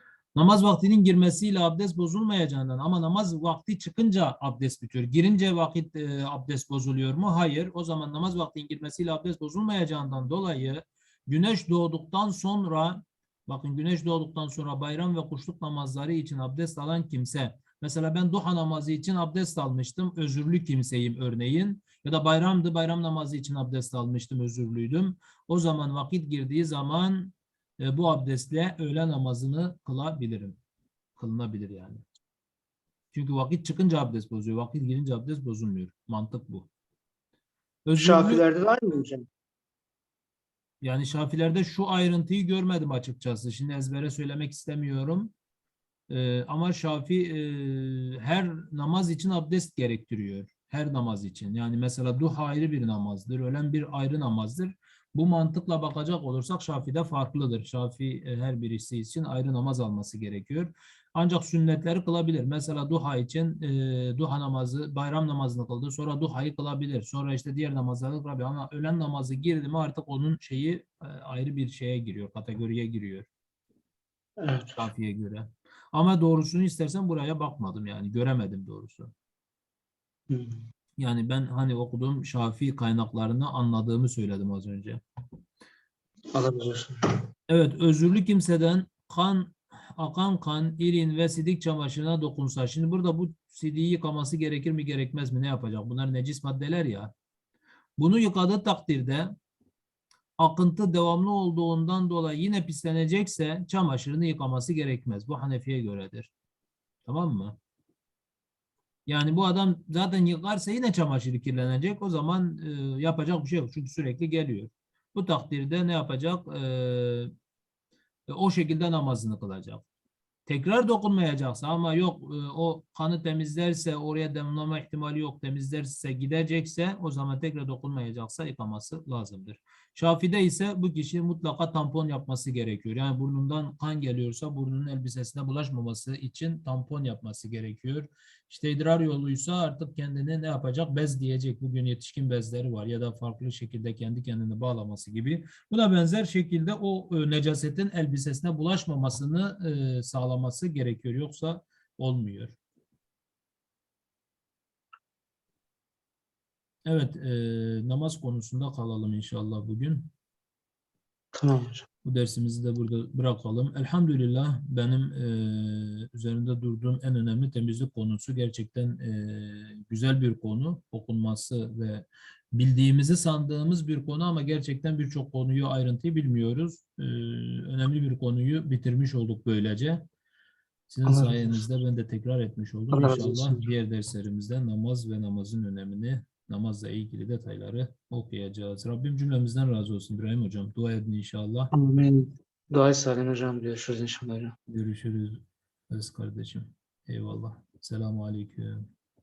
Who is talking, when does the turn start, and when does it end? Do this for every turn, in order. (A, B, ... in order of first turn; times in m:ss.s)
0:00.4-0:30.6 A
0:31.2-0:32.0 A
0:33.1-0:36.7 A
0:37.8-0:38.4 A
0:38.0-0:39.2 B
0:40.8-0:45.3 A
0:46.1-1:13.3 A
1:14.4-1:14.8 B
1:14.8-1:19.1 A
1:20.3-1:20.6 B
1:21.0-1:25.0 A
1:26.3-1:27.0 B
1:27.5-1:37.1 A
1:38.0-1:39.3 A
1:40.4-1:46.3 A
1:47.0-1:47.5 A
1:49.1-1:57.3 A
1:58.3-1:59.8 A
2:00.5-2:32.6 A
2:36.8-2:40.1 A
2:41.3-2:41.8 B
2:42.0-3:00.0 A
3:00.9-3:11.7 A
3:01.0-3:01.6 B
3:02.9-3:03.6 B
3:11.7-3:14.5 B
3:14.7-3:18.8 A